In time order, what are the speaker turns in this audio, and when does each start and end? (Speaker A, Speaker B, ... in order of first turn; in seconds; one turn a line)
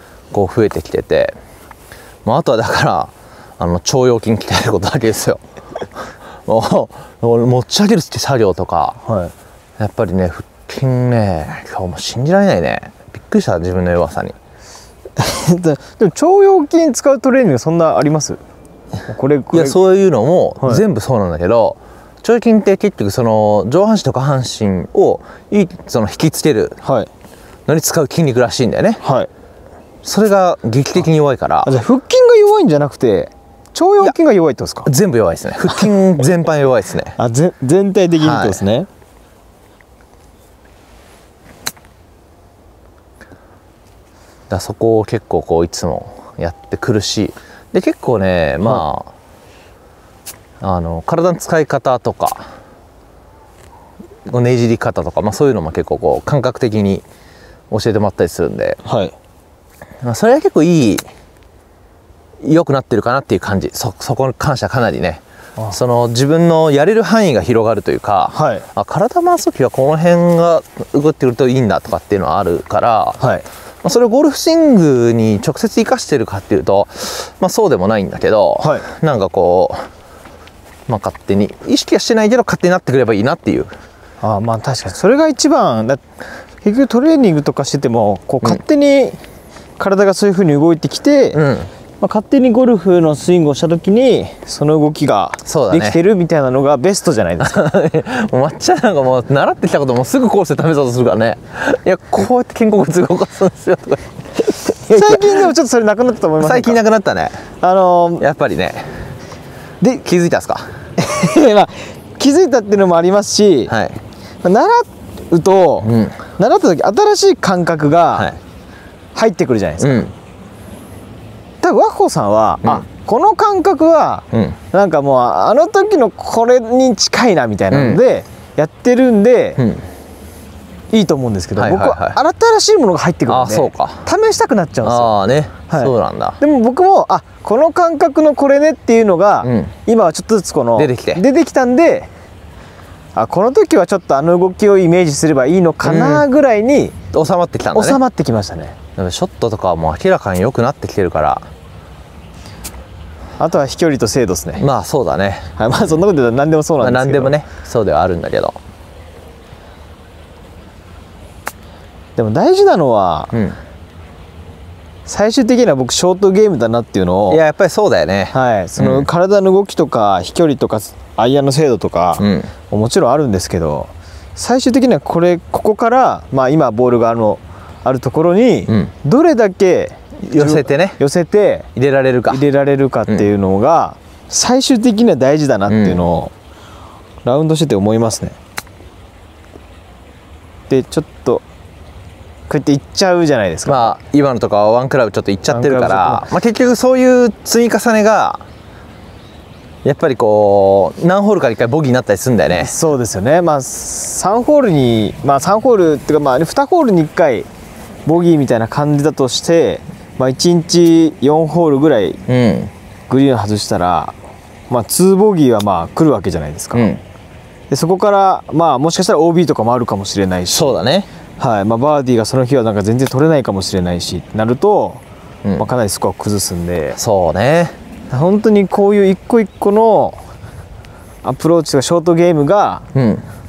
Speaker A: 0.3-1.3
Speaker A: 2.2-5.4
Speaker A: 6.0-9.0
Speaker B: 9.0-9.3
Speaker A: 9.8-14.3
Speaker B: 15.2-18.4
Speaker B: 19.1-19.8
Speaker A: 19.5-26.8
Speaker B: 26.8-27.1
Speaker A: 27.7-29.0
Speaker B: 29.0-29.3
Speaker A: 30.0-31.7
Speaker B: 31.6-34.9
Speaker A: 34.9-37.1
Speaker B: 37.2-38.9
Speaker A: 38.2-38.6
Speaker A: 44.5-49.1
Speaker A: 50.6-52.5
Speaker A: 54.3-57.0
Speaker A: 57.7-58.8
Speaker B: 58.8-59.1
Speaker A: 60.0-61.0
Speaker A: 62.4-65.2
Speaker A: 65.7-73.2
Speaker B: 68.3-68.6
Speaker B: 73.2-73.5
Speaker A: 73.8-79.8
Speaker B: 78.6-78.9
Speaker A: 80.9-83.7
Speaker B: 84.2-86.0
Speaker B: 86.6-89.2
Speaker B: 89.8-91.4
Speaker A: 91.3-91.7
Speaker B: 92.0-97.6
Speaker A: 95.5-96.0
Speaker A: 97.4-105.5
Speaker B: 104.9-106.8
Speaker A: 106.4-107.4
Speaker B: 107.6-108.2
Speaker A: 108.2-108.9
Speaker A: 110.0-110.7
Speaker B: 111.0-113.7
Speaker A: 113.7-114.0
Speaker B: 114.4-118.3
Speaker A: 115.8-116.2
Speaker B: 119.1-120.1
Speaker A: 119.8-120.1
Speaker B: 121.6-129.6
Speaker A: 124.3-124.6
Speaker A: 127.7-128.0
Speaker A: 129.6-129.8
Speaker B: 130.9-135.1
Speaker A: 131.6-132.2
Speaker A: 133.3-134.0
Speaker A: 134.8-136.4
Speaker B: 135.7-142.1
Speaker A: 139.4-139.7
Speaker A: 140.8-141.2
Speaker B: 143.2-147.0
Speaker A: 145.8-146.2
Speaker A: 147.1-148.0
Speaker B: 147.7-148.8
Speaker A: 148.9-151.4
Speaker B: 153.4-154.7
Speaker A: 154.6-155.6
Speaker B: 155.6-157.4
Speaker A: 156.8-158.6
Speaker B: 162.2-163.3
Speaker A: 163.3-163.6
Speaker B: 165.1-167.4
Speaker A: 167.3-169.1
Speaker B: 168.3-181.7
Speaker A: 172.2-172.5
Speaker A: 180.2-181.0
Speaker A: 181.8-182.4
Speaker B: 182.3-186.3
Speaker A: 185.7-186.0
Speaker B: 187.2-188.4
Speaker B: 190.7-191.4
Speaker B: 192.5-194.0
Speaker A: 193.7-198.4
Speaker B: 195.5-196.3
Speaker A: 199.8-202.7
Speaker B: 202.6-207.5
Speaker B: 208.1-212.2
Speaker A: 212.3-212.7
Speaker B: 213.1-214.1
Speaker B: 214.7-216.9
Speaker A: 216.7-217.0
Speaker B: 217.7-220.7
Speaker A: 220.5-221.1
Speaker B: 221.4-225.0
Speaker B: 225.6-227.0
Speaker A: 227.0-227.8
Speaker B: 228.1-230.2
Speaker B: 231.2-232.8
Speaker A: 232.9-233.2